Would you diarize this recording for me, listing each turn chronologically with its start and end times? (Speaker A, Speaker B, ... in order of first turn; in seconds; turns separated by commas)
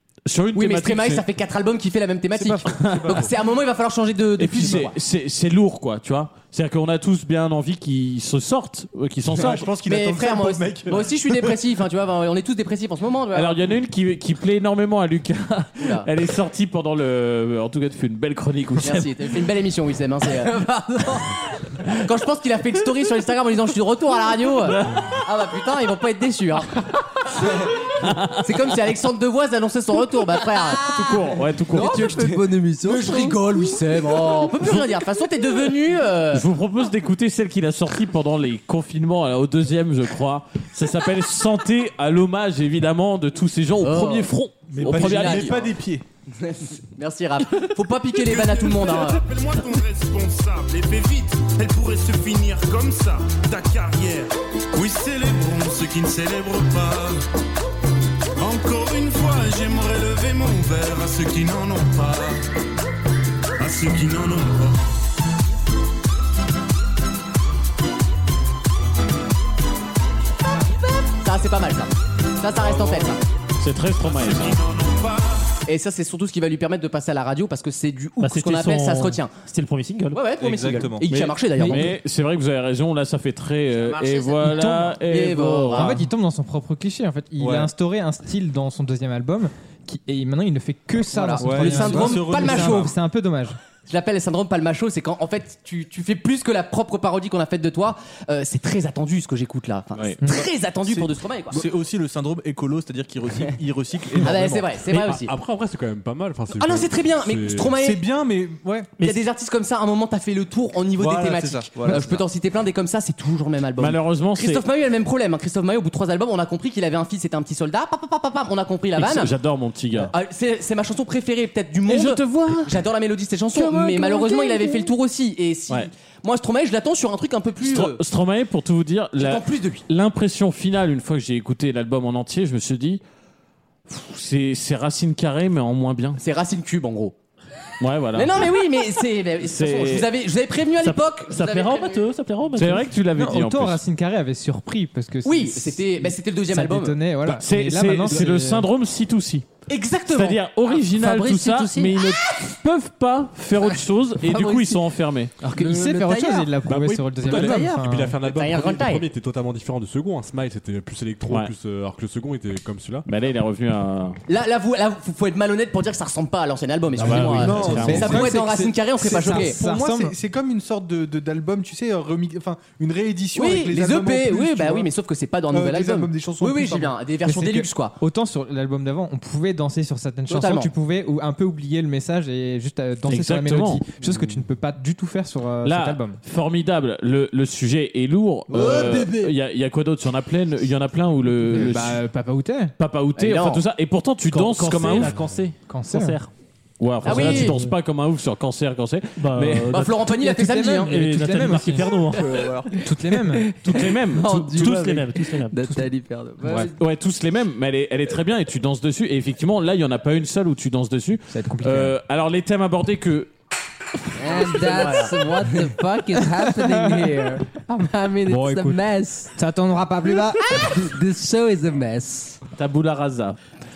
Speaker A: 0.3-1.2, Speaker B: 0.6-4.9, Speaker C: 2.3-3.3, Speaker A: 2.7-3.2, Speaker A: 4.4-9.7, Speaker C: 9.3-11.6, Speaker B: 9.8-13.6, Speaker A: 13.3-19.3, Speaker B: 15.8-16.1, Speaker B: 18.8-20.7, Speaker D: 20.5-21.3, Speaker B: 21.9-30.9, Speaker A: 28.0-28.4, Speaker A: 30.8-32.3, Speaker D: 31.7-33.8, Speaker B: 31.8-32.1, Speaker B: 32.8-36.4, Speaker A: 36.3-45.6, Speaker B: 43.8-45.7, Speaker C: 44.7-46.0, Speaker B: 46.3-49.2, Speaker E: 48.2-57.2, Speaker E: 58.4-62.4, Speaker E: 63.6-64.8, Speaker B: 71.1-73.2, Speaker A: 73.6-74.6, Speaker E: 74.0-75.6, Speaker B: 75.7-79.3, Speaker F: 78.2-80.2, Speaker B: 80.1-81.9, Speaker C: 80.4-81.1, Speaker A: 81.0-86.0, Speaker B: 83.8-86.0, Speaker G: 85.7-93.6, Speaker C: 87.4-87.7, Speaker B: 91.1-92.9, Speaker C: 91.4-92.9, Speaker B: 93.9-101.6, Speaker C: 100.9-104.8, Speaker B: 104.2-105.3, Speaker H: 104.9-107.7, Speaker B: 106.5-108.0, Speaker C: 107.8-108.9, Speaker B: 109.0-119.3, Speaker C: 111.0-112.2, Speaker A: 113.8-114.6, Speaker A: 119.0-120.1, Speaker B: 120.0-128.0, Speaker A: 121.9-122.7, Speaker D: 124.0-124.4, Speaker A: 127.6-133.0, Speaker B: 129.2-129.8, Speaker A: 133.9-136.2, Speaker B: 136.2-137.2, Speaker A: 137.8-138.5, Speaker B: 138.2-142.1, Speaker A: 139.4-140.1, Speaker F: 140.8-142.9, Speaker A: 142.5-143.8, Speaker G: 143.2-148.7, Speaker B: 145.2-147.0, Speaker A: 147.3-149.5, Speaker B: 149.7-150.4, Speaker A: 150.1-155.3, Speaker D: 150.8-152.0, Speaker D: 154.2-154.8, Speaker D: 155.4-156.7, Speaker G: 155.6-158.2, Speaker H: 156.7-163.1, Speaker D: 157.2-157.9, Speaker B: 158.2-159.1, Speaker A: 163.1-164.2, Speaker B: 164.3-169.6, Speaker A: 167.0-168.2, Speaker H: 167.0-168.3, Speaker C: 167.1-174.9, Speaker G: 167.6-170.2, Speaker B: 173.3-178.0, Speaker C: 175.5-177.0, Speaker G: 177.3-186.2, Speaker B: 180.3-180.7, Speaker A: 183.0-183.8, Speaker A: 185.6-192.0, Speaker C: 188.5-189.2, Speaker D: 188.9-189.2, Speaker G: 191.5-192.8, Speaker A: 192.8-195.2, Speaker B: 193.2-193.6, Speaker F: 194.3-196.3, Speaker G: 195.7-196.2, Speaker A: 196.8-199.8, Speaker B: 197.0-197.6, Speaker F: 197.1-197.7, Speaker F: 199.2-200.0, Speaker B: 199.7-200.9, Speaker G: 200.1-202.0, Speaker F: 200.8-202.6, Speaker D: 202.3-202.7, Speaker G: 202.8-203.6, Speaker A: 203.6-205.0, Speaker D: 203.6-206.8, Speaker F: 204.6-205.7, Speaker A: 206.8-213.3, Speaker G: 211.3-211.9, Speaker D: 214.2-219.3, Speaker G: 218.3-218.8, Speaker G: 219.3-220.5, Speaker D: 220.6-222.4, Speaker A: 222.6-223.4